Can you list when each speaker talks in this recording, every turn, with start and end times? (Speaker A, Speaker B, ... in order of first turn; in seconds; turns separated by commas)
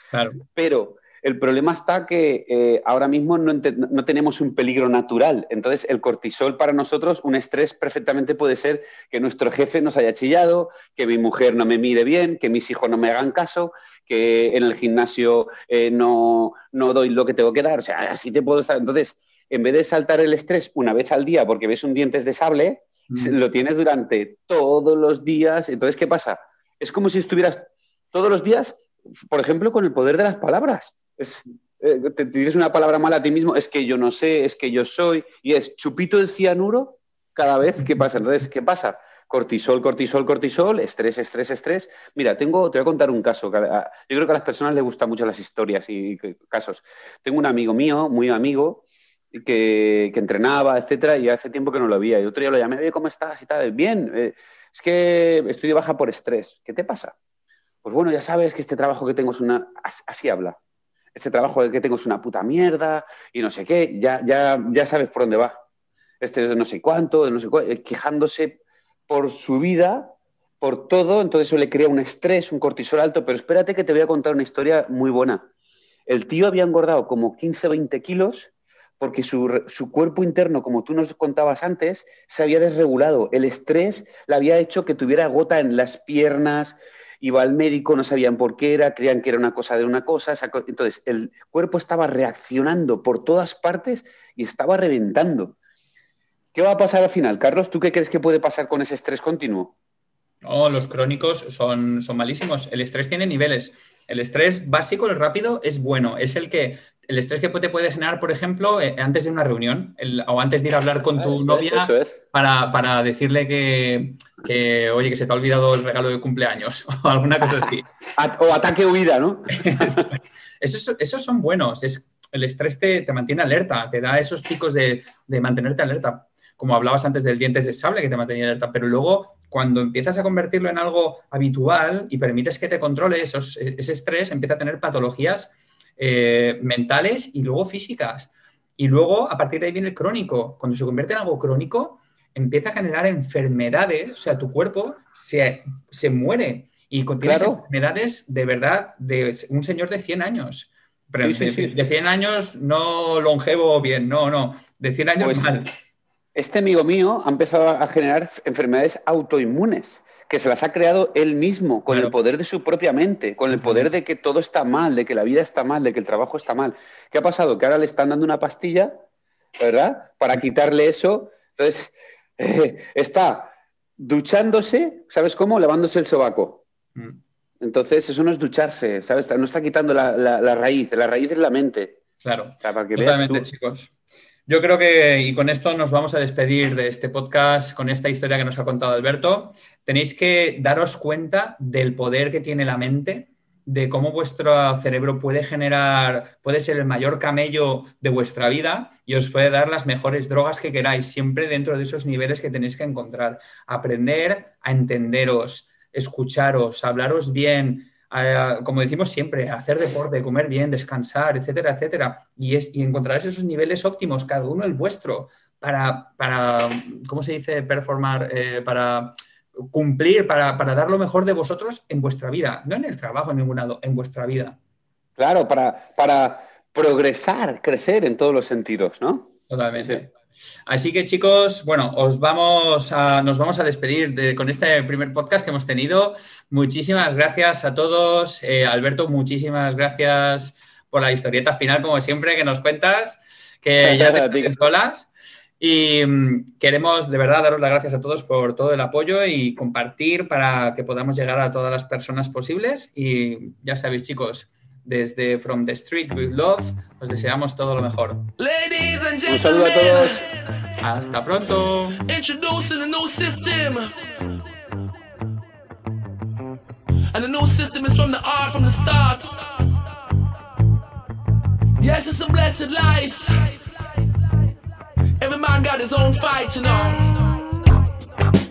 Speaker A: 0.1-0.4, Speaker B: 0.5-57.1, Speaker A: 23.1-23.4, Speaker B: 57.8-60.6, Speaker B: 61.1-65.6, Speaker B: 66.2-75.5, Speaker B: 76.1-95.6, Speaker B: 96.5-99.7, Speaker A: 100.4-117.9, Speaker B: 111.1-112.2, Speaker B: 118.2-120.1, Speaker A: 119.5-155.7, Speaker B: 147.2-147.6, Speaker B: 151.2-151.7, Speaker B: 155.2-155.5, Speaker B: 156.3-169.0, Speaker A: 161.9-162.1, Speaker A: 163.5-163.9, Speaker B: 169.6-176.6, Speaker B: 177.6-182.0, Speaker A: 182.2-183.9, Speaker B: 182.6-183.5, Speaker A: 184.5-219.2, Speaker A: 219.7-224.6, Speaker B: 225.2-230.0, Speaker A: 229.5-230.1, Speaker A: 230.7-245.1, Speaker B: 243.8-244.6, Speaker A: 245.6-258.2, Speaker C: 258.4-260.6, Speaker B: 259.2-260.2, Speaker A: 260.8-262.0, Speaker C: 262.1-264.4, Speaker C: 267.1-269.7, Speaker C: 271.8-273.8, Speaker C: 275.2-277.4